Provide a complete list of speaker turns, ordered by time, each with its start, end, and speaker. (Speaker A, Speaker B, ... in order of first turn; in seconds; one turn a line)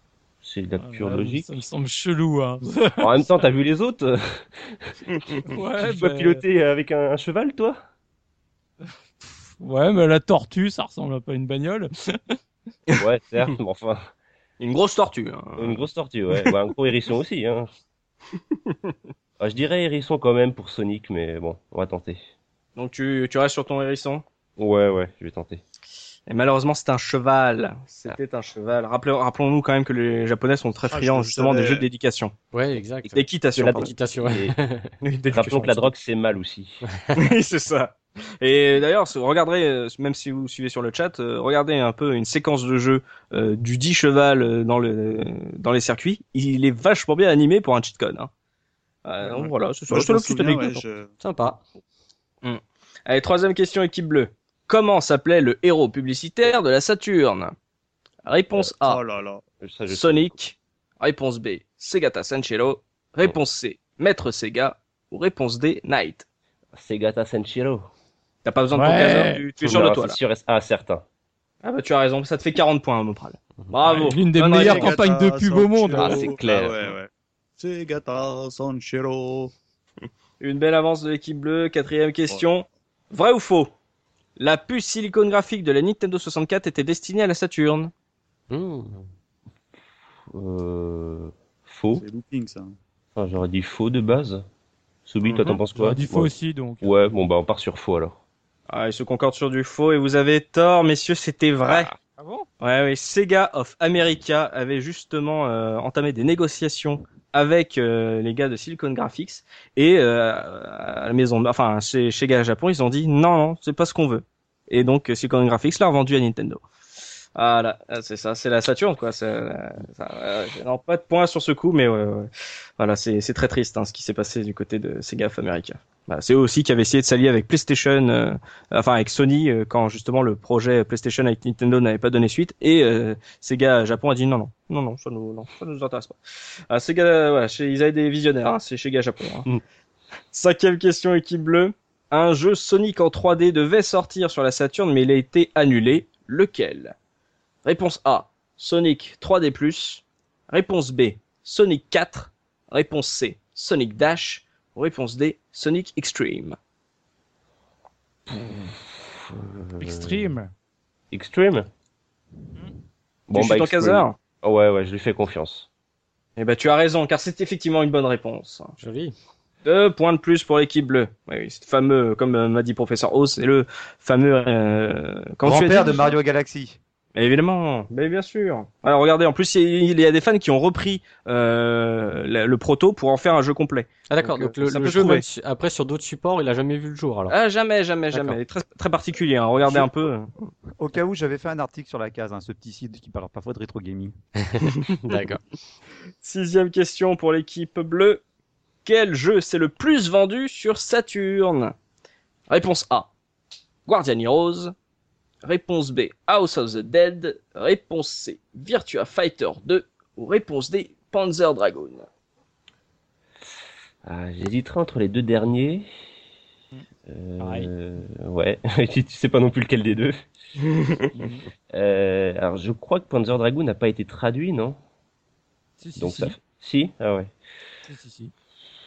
Speaker A: 0.4-1.6
Speaker B: 0.8-3.3
Speaker A: 3.0-7.8
Speaker B: 5.5-6.4
Speaker B: 9.6-12.3
Speaker A: 13.0-14.1
Speaker C: 14.6-15.9
Speaker A: 15.6-17.7
Speaker C: 18.7-18.9
Speaker A: 19.4-22.2
Speaker C: 22.8-24.2
Speaker A: 24.6-25.6
Speaker C: 26.3-32.3
Speaker D: 30.9-31.9
Speaker E: 32.5-34.9
Speaker A: 33.0-34.5
Speaker C: 33.1-33.9
Speaker C: 35.0-35.7
Speaker A: 35.3-36.8
Speaker E: 35.4-35.9
Speaker C: 37.1-48.3
Speaker C: 49.0-50.9
Speaker D: 49.2-51.1
Speaker E: 51.2-51.6
Speaker C: 52.4-57.5
Speaker C: 58.2-59.0
Speaker D: 58.8-59.4
Speaker A: 59.6-60.4
Speaker C: 59.9-66.2
Speaker A: 66.7-67.8
Speaker C: 68.4-70.2
Speaker B: 68.7-69.5
Speaker A: 69.6-71.0
Speaker C: 71.6-74.9
Speaker B: 73.8-76.3
Speaker D: 74.5-79.5
Speaker A: 76.0-76.9
Speaker C: 80.4-83.7
Speaker C: 84.4-87.9
Speaker E: 88.5-89.1
Speaker A: 90.3-92.0
Speaker D: 91.9-92.7
Speaker A: 93.1-94.4
Speaker A: 95.0-98.2
Speaker C: 95.2-95.6
Speaker B: 95.7-96.9
Speaker C: 98.7-101.9
Speaker A: 101.7-102.0
Speaker B: 102.2-102.5
Speaker C: 102.6-116.6
Speaker C: 117.3-136.2
Speaker C: 136.7-139.5
Speaker C: 140.3-146.9
Speaker C: 147.6-156.6
Speaker A: 158.3-160.3
Speaker B: 159.8-160.5
Speaker A: 161.1-161.7
Speaker A: 163.3-165.7
Speaker C: 163.3-164.2
Speaker C: 166.4-168.7
Speaker E: 168.8-169.1
Speaker C: 169.6-176.2
Speaker F: 175.4-176.8
Speaker C: 177.1-185.2
Speaker E: 184.1-187.3
Speaker C: 187.3-190.5
Speaker E: 188.1-188.4
Speaker F: 190.8-194.1
Speaker E: 194.4-195.4
Speaker C: 196.2-198.2
Speaker C: 198.8-201.7
Speaker C: 202.5-203.1
Speaker C: 203.8-204.7
Speaker C: 205.4-212.1
Speaker A: 214.0-215.9
Speaker A: 217.1-220.3
Speaker B: 217.4-217.7
Speaker C: 220.7-221.0
Speaker B: 221.2-221.4
Speaker A: 221.7-224.8
Speaker B: 225.8-226.4
Speaker A: 225.9-227.3
Speaker B: 227.9-228.3